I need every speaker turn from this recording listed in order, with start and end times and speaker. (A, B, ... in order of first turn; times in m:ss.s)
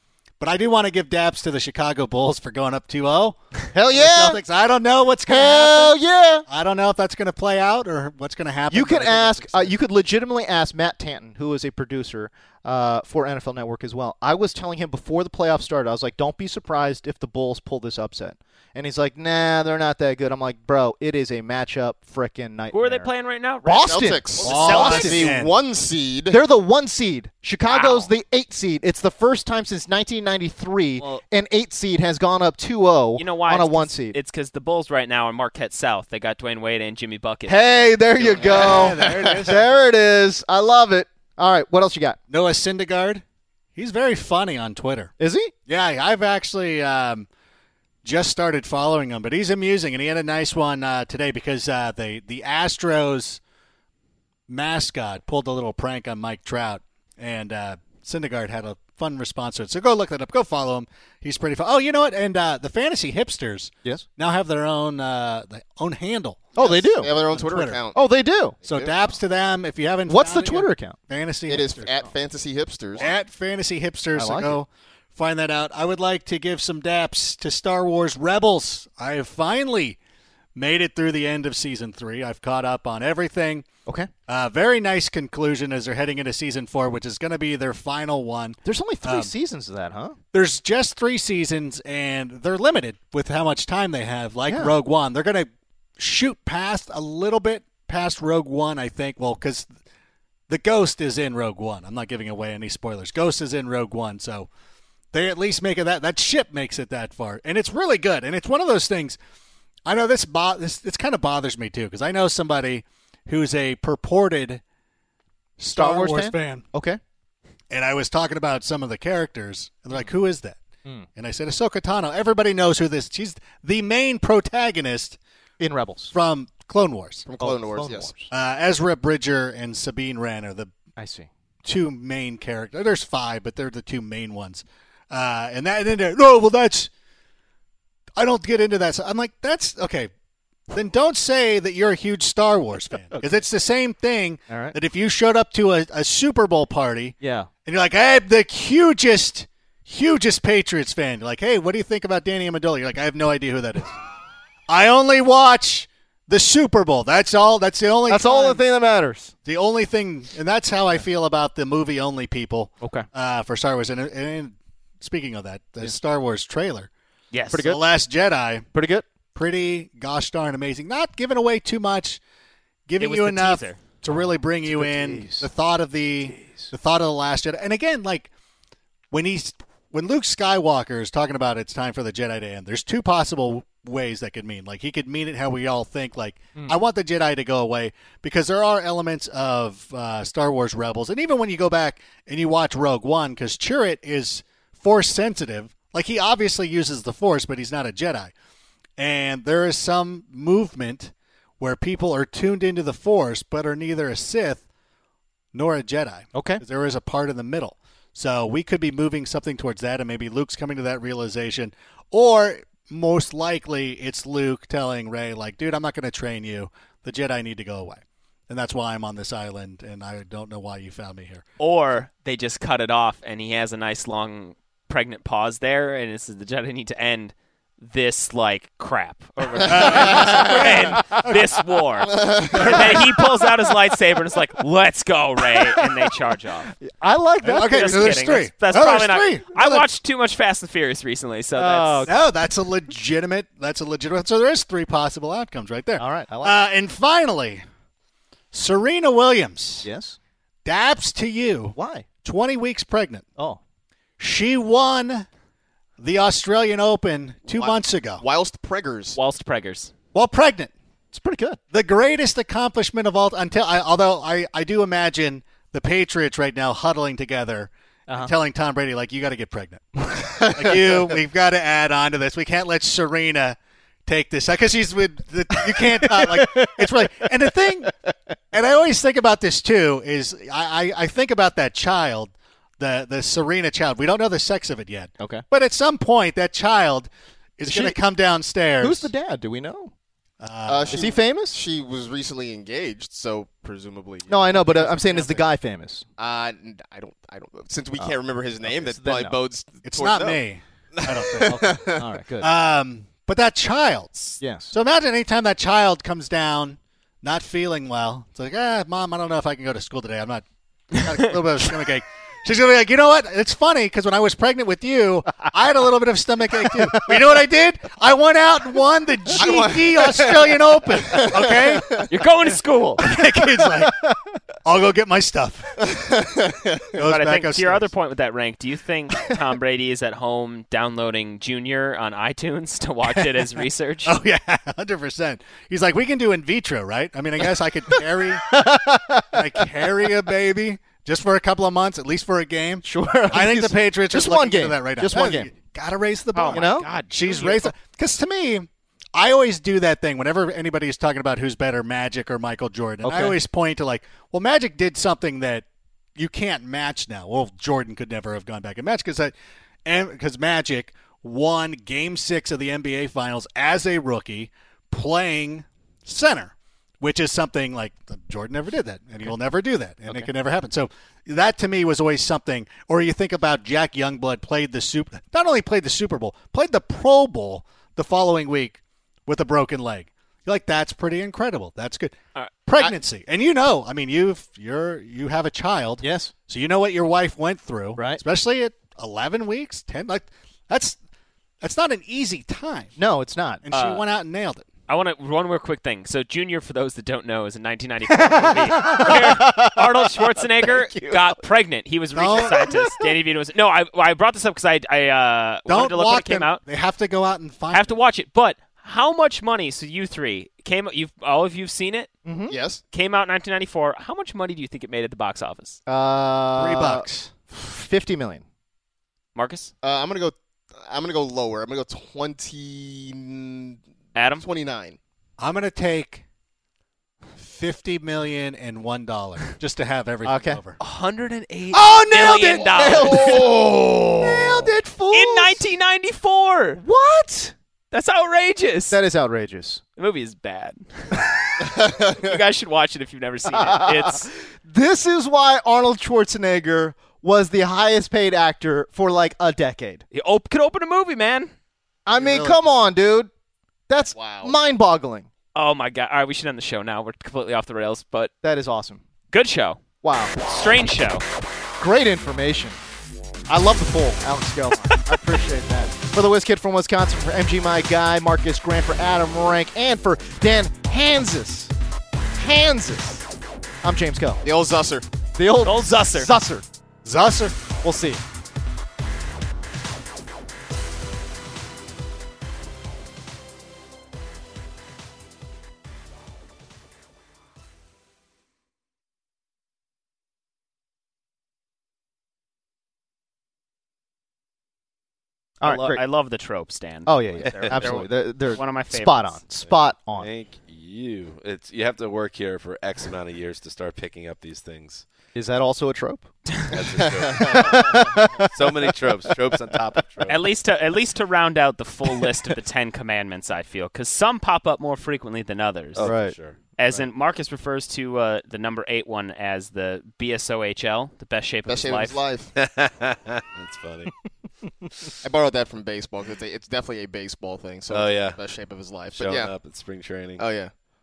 0:00.4-0:06.0 A
0:03.7-0:04.4 B
0:05.3-0:06.5 B
0:06.5-0:09.8 A
0:08.7-0:23.1 B
0:22.7-0:25.1 C
0:23.6-0:25.3 B
0:23.8-0:26.4 D
0:24.4-0:25.5 A
0:26.3-0:34.2 B
0:27.7-0:28.1 C
0:33.2-0:38.7 C
0:37.5-0:42.2 B
0:38.3-0:39.6 A
0:38.5-0:39.4 D
0:42.3-0:43.2 A
0:43.8-0:45.1 A
0:45.2-0:45.5 B
0:45.7-0:47.3 A
0:48.0-0:53.4 A
0:54.5-1:07.8 A
1:06.6-1:07.1 B
1:06.6-1:08.0 D
1:07.9-1:08.6 B
1:08.6-1:09.2 D
1:08.7-1:12.0 A
1:10.1-1:11.0 B
1:11.5-1:13.1 D
1:13.0-1:20.0 A
1:14.1-1:14.6 B
1:20.6-1:23.7 A
1:24.3-1:29.3 A
1:28.6-1:30.2 B
1:30.3-1:39.7 A
1:34.5-1:34.8 B
1:40.5-1:44.5 A
1:45.1-1:49.2 A
1:49.9-1:54.6 A
1:55.6-1:56.6 A
1:55.7-1:57.0 B
1:57.7-2:00.6 A
2:01.2-2:05.2 A
2:05.6-2:06.1 B
2:06.1-2:07.3 A
2:07.3-2:08.1 D
2:07.4-2:08.3 B
2:08.3-2:10.7 A
2:11.0-2:11.3 B
2:11.6-2:16.9 A
2:18.2-2:20.1 A
2:20.7-2:34.0 A
2:23.1-2:23.4 B
2:24.5-2:24.8 B
2:27.2-2:27.5 B
2:34.7-2:38.6 A
2:38.1-2:39.3 B
2:39.4-2:46.9 A
2:42.8-2:43.1 B
2:47.3-2:47.7 C
2:47.5-2:47.8 B
2:47.6-2:48.7 A
2:48.7-2:49.1 B
2:49.3-2:52.2 A
2:52.9-2:58.3 A
2:53.0-2:53.8 C
2:54.1-2:55.5 B
2:56.2-2:56.7 B
2:59.1-3:18.3 A
3:19.0-3:24.7 A
3:25.5-3:41.4 A
3:26.3-3:26.6 B
3:41.6-3:56.7 C
3:49.6-3:51.6 A
3:49.8-3:51.2 B
3:50.2-3:50.5 D
3:52.1-3:52.8 D
3:52.6-3:53.0 A
3:52.6-3:52.9 B
3:55.5-3:55.9 B
3:56.8-3:58.2 B
3:57.4-3:59.8 A
3:57.5-4:02.1 C
4:01.6-4:02.2 B
4:02.1-4:07.6 A
4:06.0-4:06.6 B
4:08.5-4:09.9 A
4:09.8-4:10.2 B
4:10.6-4:13.3 A
4:11.8-4:12.1 B
4:14.2-4:15.3 A
4:16.0-4:18.2 A
4:17.6-4:19.2 D
4:19.2-4:19.9 C
4:20.1-4:20.7 A
4:21.1-4:21.6 B
4:21.7-4:37.9 A
4:35.5-4:37.9 B
4:38.5-4:49.1 A
4:45.2-4:45.4 B
4:47.6-4:48.0 B
4:48.8-4:49.9 B
4:50.4-4:51.1 A
4:50.7-4:55.5 D
4:50.9-4:51.6 B
4:54.3-4:56.0 B
4:56.2-5:00.4 D
4:58.0-4:59.4 B
4:59.8-5:01.8 A
5:01.0-5:02.0 D
5:01.4-5:02.5 B
5:02.4-5:22.1 A
5:04.4-5:04.8 B
5:16.7-5:17.3 B
5:19.4-5:21.8 D
5:22.1-5:23.0 C
5:23.0-5:24.0 A
5:23.1-5:24.2 B
5:24.6-5:26.0 A
5:25.9-5:26.8 D
5:26.9-5:27.9 A
5:27.1-5:34.1 C
5:34.0-5:38.6 A
5:37.4-5:40.1 B
5:39.3-5:59.3 A
5:42.8-5:45.5 B
5:46.3-5:47.7 C
5:46.5-5:46.9 B
5:53.0-5:53.4 B
5:59.9-6:22.2 A
6:22.7-6:31.0 A
6:26.0-6:26.3 B
6:28.0-6:28.2 B
6:31.6-6:32.9 A
6:33.0-6:33.6 B
6:33.6-6:34.7 A
6:33.7-6:34.0 C
6:34.9-6:46.6 C
6:38.1-6:41.4 B
6:42.2-6:42.9 A
6:42.4-6:42.9 B
6:45.7-6:48.0 A
6:47.7-6:52.1 C
6:52.2-6:52.6 B
6:52.5-6:52.8 D
6:52.9-6:55.8 C
6:55.9-6:58.4 B
6:56.6-6:57.3 A
6:59.4-6:59.7 C
6:59.8-7:03.8 D
7:04.2-7:04.4 C
7:04.4-7:05.0 D
7:05.4-7:06.2 A
7:07.4-7:10.8 A
7:10.2-7:10.6 B
7:10.8-7:13.4 C
7:11.7-7:15.6 A
7:13.0-7:13.5 B
7:13.1-7:13.4 D
7:15.1-7:16.8 C
7:16.8-7:17.5 B
7:17.9-7:19.0 C
7:18.9-7:19.8 B
7:20.0-7:24.3 C
7:21.9-7:22.2 D
7:23.5-7:30.0 B
7:30.1-7:31.5 C
7:32.1-7:33.3 B
7:32.2-7:32.7 A
7:33.9-7:35.3 B
7:34.2-7:34.6 D
7:35.6-7:38.3 C
7:38.4-7:39.0 B
7:39.3-7:39.8 C
7:40.0-7:40.4 B
7:40.4-7:41.2 C
7:41.8-7:42.8 B
7:43.5-7:51.7 B
7:52.4-7:53.3 B
7:53.8-7:54.4 B
7:54.4-7:55.0 D
7:55.4-7:56.6 B
7:55.6-7:56.3 C
7:57.0-7:57.6 A
7:57.8-7:58.2 B
8:15.6-8:16.0 B
8:15.6-8:19.4 C
8:17.1-8:20.3 B
8:17.4-8:18.0 E
8:19.6-8:25.1 E
8:25.3-8:26.3 B
8:26.7-8:30.4 E
8:27.4-8:28.9 B
8:30.3-8:36.2 C
8:36.0-8:37.1 E
8:36.0-8:36.4 B
8:36.8-8:42.2 C
8:41.7-8:42.5 D
8:42.6-8:44.1 E
8:45.2-8:49.5 D
8:47.9-8:48.4 E
8:49.2-8:50.4 E
8:50.4-8:50.7 D